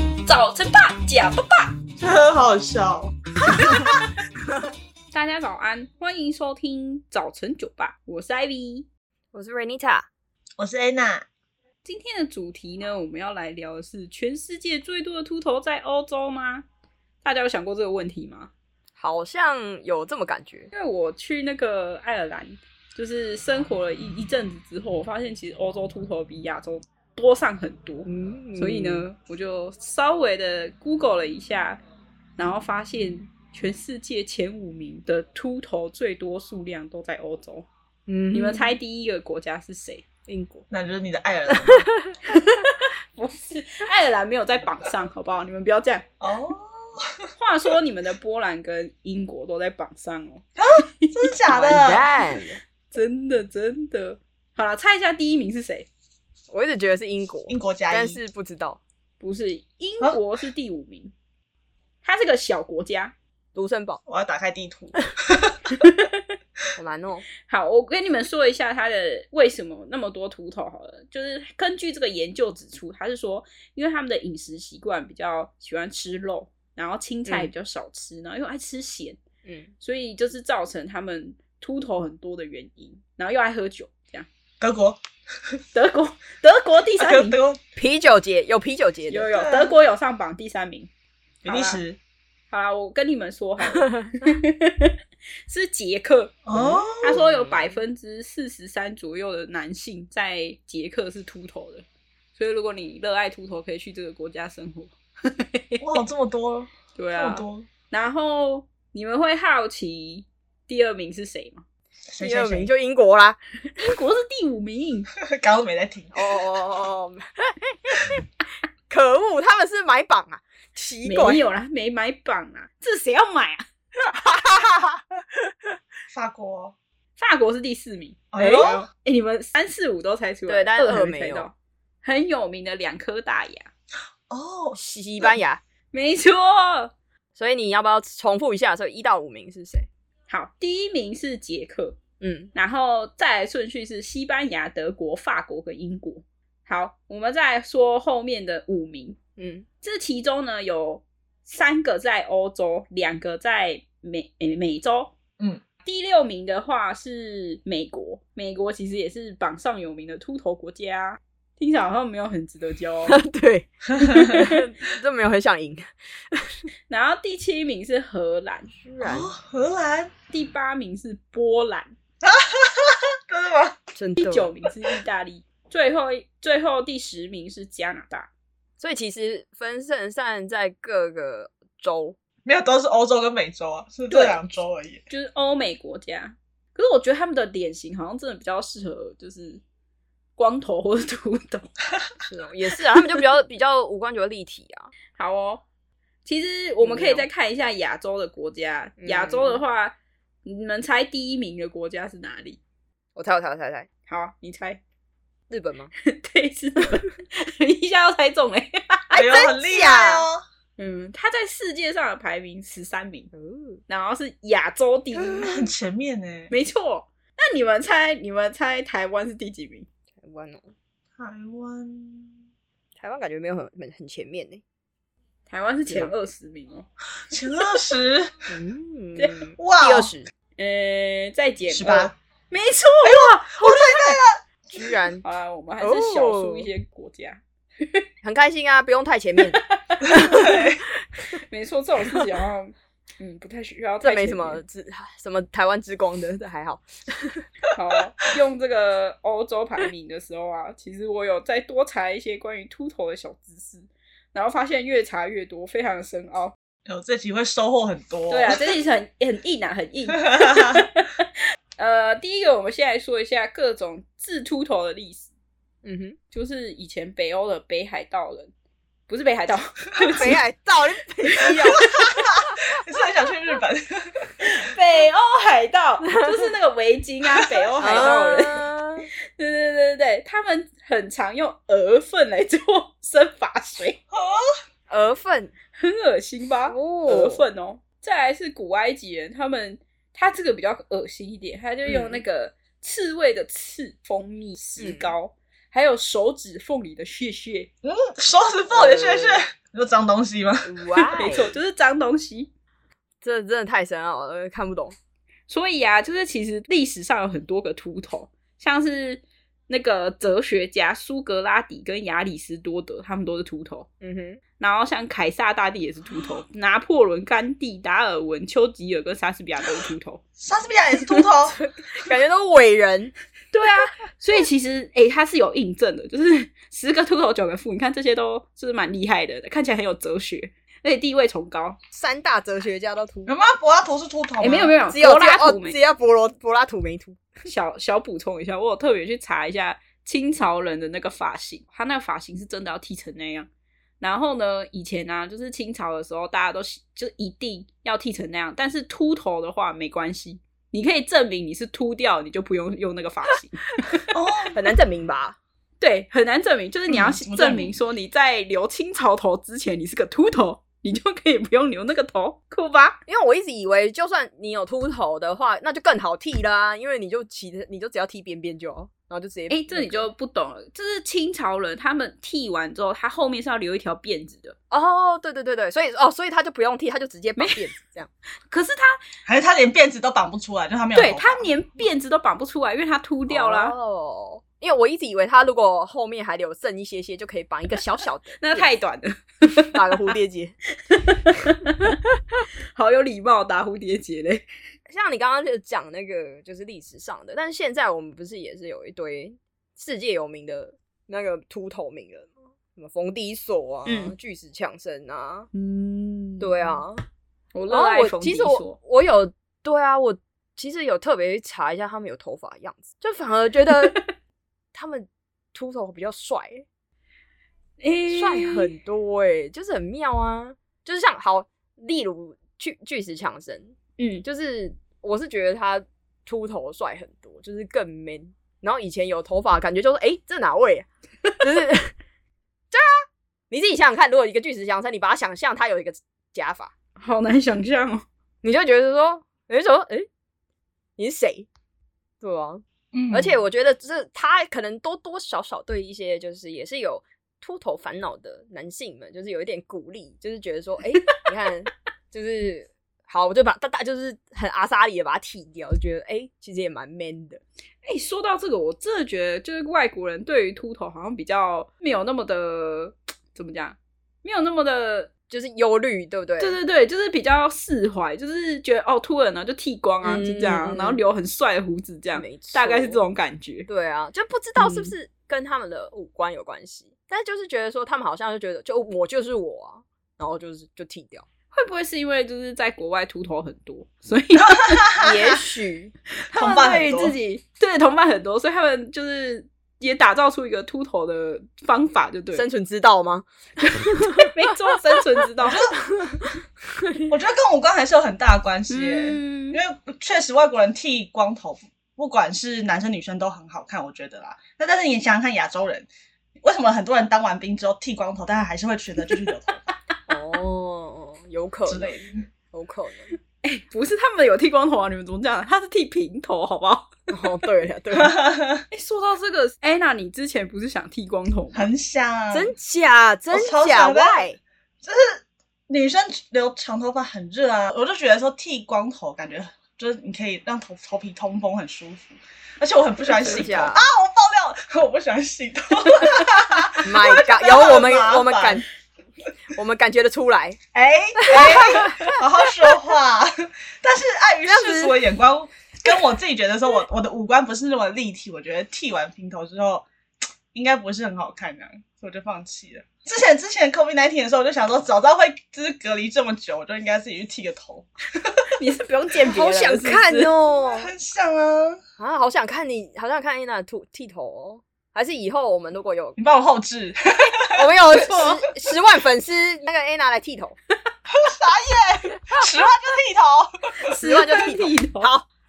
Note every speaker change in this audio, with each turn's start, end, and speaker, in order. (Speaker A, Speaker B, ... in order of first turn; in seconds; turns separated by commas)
Speaker A: 0.3-1.7, Speaker B: 2.0-4.1, Speaker A: 5.1-8.9, Speaker C: 9.3-10.1, Speaker B: 10.6-11.2, Speaker A: 11.8-16.6, Speaker A: 17.2-18.5, Speaker C: 19.0-20.7, Speaker A: 20.7-31.8, Speaker C: 28.0-29.1, Speaker A: 32.4-37.7, Speaker C: 38.1-38.8, Speaker A: 38.3-40.0, Speaker C: 40.3-40.6, Speaker B: 40.7-41.9, Speaker C: 41.6-42.1, Speaker A: 42.3-46.0, Speaker B: 46.2-47.3, Speaker A: 47.4-50.5, Speaker B: 50.6-52.1, Speaker A: 51.0-51.8, Speaker C: 51.6-52.6, Speaker A: 52.9-55.9, Speaker C: 56.5-58.8, Speaker B: 57.5-58.2, Speaker A: 59.2-61.1, Speaker A: 62.0-63.1, Speaker C: 63.5-64.0, Speaker B: 64.1-65.7, Speaker A: 65.7-66.3, Speaker C: 66.8-67.2, Speaker A: 67.5-79.2, Speaker C: 79.5-79.7, Speaker A: 79.8-84.3, Speaker B: 84.6-85.0, Speaker A: 85.7-87.4, Speaker B: 87.0-87.6, Speaker C: 87.8-89.3, Speaker A: 89.1-90.9, Speaker B: 89.3-89.8, Speaker A: 91.4-91.8, Speaker B: 91.5-92.0, Speaker A: 92.5-95.0, Speaker C: 93.7-94.2, Speaker A: 95.5-96.4, Speaker B: 96.5-97.3, Speaker C: 96.5-97.7, Speaker A: 97.0-101.8, Speaker A: 102.4-105.9, Speaker B: 105.8-107.7, Speaker A: 107.0-111.6, Speaker B: 112.1-112.7, Speaker C: 112.2-113.4, Speaker A: 113.7-115.1, Speaker B: 115.2-116.4, Speaker C: 116.1-118.2, Speaker C: 118.9-121.4, Speaker A: 121.0-123.6, Speaker C: 124.0-125.0, Speaker B: 126.1-126.7, Speaker A: 127.2-133.7, Speaker B: 128.3-128.8, Speaker C: 130.5-131.5, Speaker B: 134.3-135.4, Speaker C: 134.8-135.6, Speaker A: 135.9-136.9, Speaker C: 137.3-139.9, Speaker A: 140.3-142.0, Speaker C: 142.2-142.5, Speaker A: 142.5-149.2, Speaker C: 149.4-149.7, Speaker A: 149.8-155.1, Speaker A: 155.8-163.2, Speaker C: 163.1-166.7, Speaker B: 163.9-164.5, Speaker A: 164.1-164.5, Speaker A: 166.9-168.7, Speaker C: 168.8-169.3, Speaker B: 169.0-170.1, Speaker A: 170.3-171.9, Speaker B: 172.2-173.8, Speaker C: 173.9-174.5, Speaker A: 174.2-178.3, Speaker C: 178.8-182.2, Speaker B: 182.4-185.0, Speaker A: 184.1-184.4, Speaker A: 185.1-189.6, Speaker A: 190.4-191.7, Speaker C: 192.2-194.9, Speaker A: 195.2-195.6, Speaker A: 196.2-202.6, Speaker C: 196.8-197.3, Speaker C: 199.0-199.6, Speaker C: 203.2-203.9, Speaker A: 204.1-204.8, Speaker C: 205.5-205.9, Speaker A: 206.0-209.2, Speaker C: 209.1-210.3, Speaker B: 209.1-210.4, Speaker A: 210.8-213.3, Speaker C: 213.3-213.8, Speaker A: 213.9-215.7, Speaker B: 215.1-216.5, Speaker A: 216.5-219.9, Speaker C: 220.2-220.7, Speaker B: 221.2-222.4, Speaker C: 223.0-224.6, Speaker A: 225.5-226.9, Speaker B: 227.3-228.5, Speaker C: 228.5-230.3, Speaker A: 229.2-229.5, Speaker B: 229.6-230.1, Speaker A: 230.6-234.2, Speaker B: 231.7-232.1, Speaker B: 233.0-234.4, Speaker C: 234.7-235.2, Speaker A: 235.2-238.0, Speaker C: 235.8-236.7, Speaker C: 238.2-241.4, Speaker A: 239.5-240.2, Speaker B: 240.0-240.8, Speaker A: 241.3-244.6, Speaker C: 244.0-247.4, Speaker A: 247.7-256.5, Speaker B: 256.9-258.8, Speaker A: 258.3-265.3, Speaker B: 260.1-260.9, Speaker C: 265.8-266.2, Speaker A: 266.3-268.5, Speaker A: 269.1-270.4, Speaker C: 270.1-272.6, Speaker A: 271.4-271.8, Speaker B: 271.6-274.5, Speaker A: 274.4-278.7, Speaker C: 276.1-276.5, Speaker B: 277.4-278.2, Speaker C: 277.8-279.1, Speaker A: 279.4-284.0, Speaker B: 284.1-284.5, Speaker C: 284.9-285.5, Speaker A: 285.8-297.7, Speaker C: 286.7-287.4, Speaker C: 291.9-292.2, Speaker C: 294.8-295.1, Speaker B: 297.8-300.7, Speaker C: 298.7-299.4, Speaker C: 300.6-301.5, Speaker A: 300.9-302.5, Speaker C: 303.2-305.0, Speaker A: 305.5-313.9, Speaker C: 314.0-314.4, Speaker A: 314.6-320.2, Speaker B: 320.4-321.6, Speaker C: 321.6-323.1, Speaker A: 323.5-331.8, Speaker C: 331.9-333.3, Speaker B: 333.2-334.7, Speaker A: 334.4-335.8, Speaker C: 334.9-337.2, Speaker A: 337.4-343.5, Speaker A: 344.0-354.0, Speaker B: 354.1-354.6, Speaker C: 354.5-355.4, Speaker A: 355.8-363.0, Speaker B: 356.9-357.7, Speaker C: 363.1-370.1, Speaker A: 369.5-374.6, Speaker C: 374.7-378.1, Speaker A: 377.4-377.7, Speaker A: 378.5-379.0, Speaker B: 379.2-381.5, Speaker A: 380.9-383.8, Speaker C: 383.3-388.7, Speaker A: 388.4-390.1, Speaker C: 389.7-390.6, Speaker A: 390.9-392.0, Speaker A: 392.8-394.4, Speaker C: 394.9-405.5, Speaker A: 403.9-404.1, Speaker A: 405.5-406.8, Speaker C: 406.4-407.0, Speaker A: 407.5-408.8, Speaker C: 407.7-414.0, Speaker A: 413.7-414.0, Speaker C: 414.7-416.7, Speaker A: 417.8-418.7, Speaker C: 418.1-430.9, Speaker A: 424.0-424.2, Speaker C: 431.4-432.0, Speaker C: 432.7-436.7, Speaker A: 437.0-438.1, Speaker C: 438.4-440.1, Speaker C: 441.0-441.5, Speaker C: 442.2-457.4, Speaker B: 442.9-443.4, Speaker A: 457.8-465.1, Speaker C: 465.3-466.6, Speaker A: 466.4-473.7, Speaker C: 470.0-471.0, Speaker C: 472.1-473.0, Speaker C: 473.7-481.2, Speaker A: 474.6-474.9, Speaker A: 481.5-485.0, Speaker B: 484.5-485.3, Speaker C: 485.0-485.9, Speaker A: 486.3-492.5, Speaker B: 486.3-487.1, Speaker C: 492.3-495.2, Speaker A: 493.6-495.7, Speaker B: 495.4-495.8, Speaker C: 495.9-497.1, Speaker B: 497.1-505.9, Speaker A: 498.7-499.6, Speaker B: 506.4-509.7, Speaker C: 510.1-513.1, Speaker B: 511.7-512.2, Speaker A: 513.4-516.9, Speaker C: 517.1-518.1, Speaker B: 517.9-518.6, Speaker A: 518.7-521.7, Speaker B: 521.5-522.5, Speaker C: 522.3-524.4, Speaker B: 523.3-524.3, Speaker B: 524.8-538.6, Speaker C: 533.2-533.9, Speaker C: 536.8-538.7, Speaker C: 539.5-540.6, Speaker B: 540.7-549.9, Speaker C: 541.2-542.2, Speaker C: 544.5-545.1, Speaker B: 550.5-558.5, Speaker A: 558.5-560.3, Speaker C: 559.2-560.9, Speaker B: 560.6-561.8, Speaker C: 562.0-566.2, Speaker B: 566.2-567.7, Speaker C: 567.5-570.6, Speaker A: 567.9-568.4, Speaker B: 571.1-574.0, Speaker A: 573.9-575.1, Speaker C: 573.9-575.3